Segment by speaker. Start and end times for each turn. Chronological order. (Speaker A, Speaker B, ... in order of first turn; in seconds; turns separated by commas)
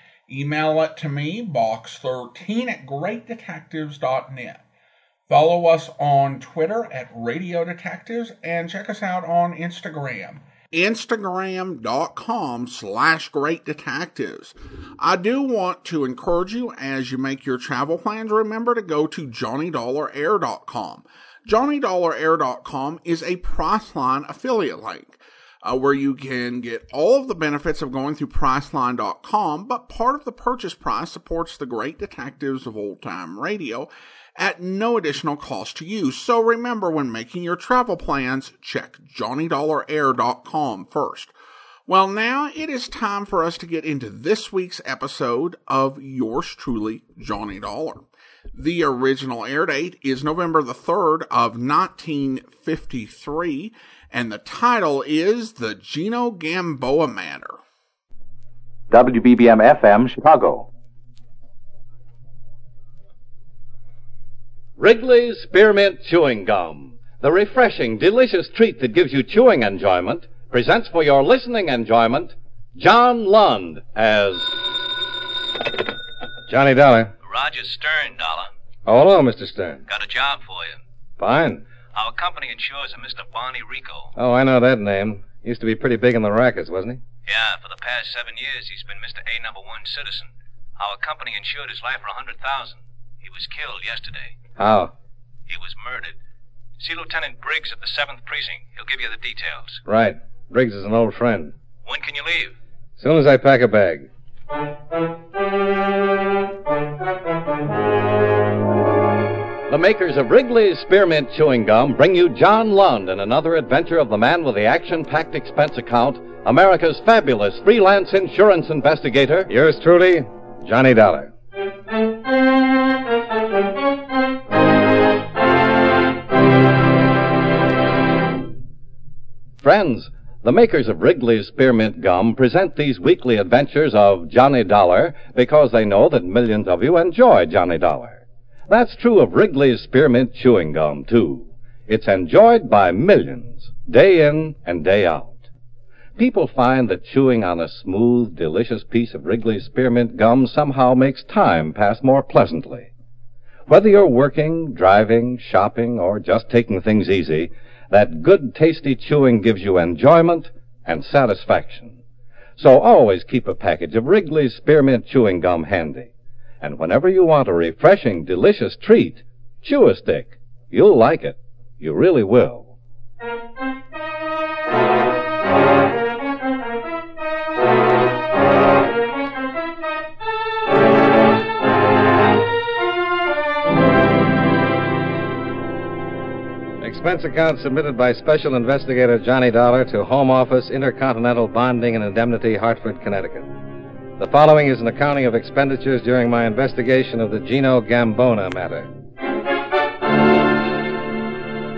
Speaker A: 0.3-4.6, Speaker A: 5.3-41.3, Speaker A: 41.9-57.6, Speaker B: 59.2-60.5, Speaker B: 64.8-74.6, Speaker C: 76.5-77.1, Speaker D: 77.2-78.5, Speaker C: 78.9-79.8, Speaker D: 79.9-80.8, Speaker C: 81.2-81.6, Speaker D: 81.9-84.1, Speaker C: 84.2-87.0, Speaker D: 87.3-94.4, Speaker C: 94.6-94.9, Speaker D: 95.5-96.2, Speaker D: 96.8-99.8, Speaker C: 99.8-101.5, Speaker D: 101.8-102.5, Speaker C: 103.0-104.1, Speaker B: 109.7-119.5, Speaker C: 119.5-121.3, Speaker B: 129.6-145.5, Speaker B: 146.2-152.9, Speaker B: 153.7-162.0, Speaker B: 162.6-172.7, Speaker C: 186.8-193.5, Speaker C: 194.2-198.9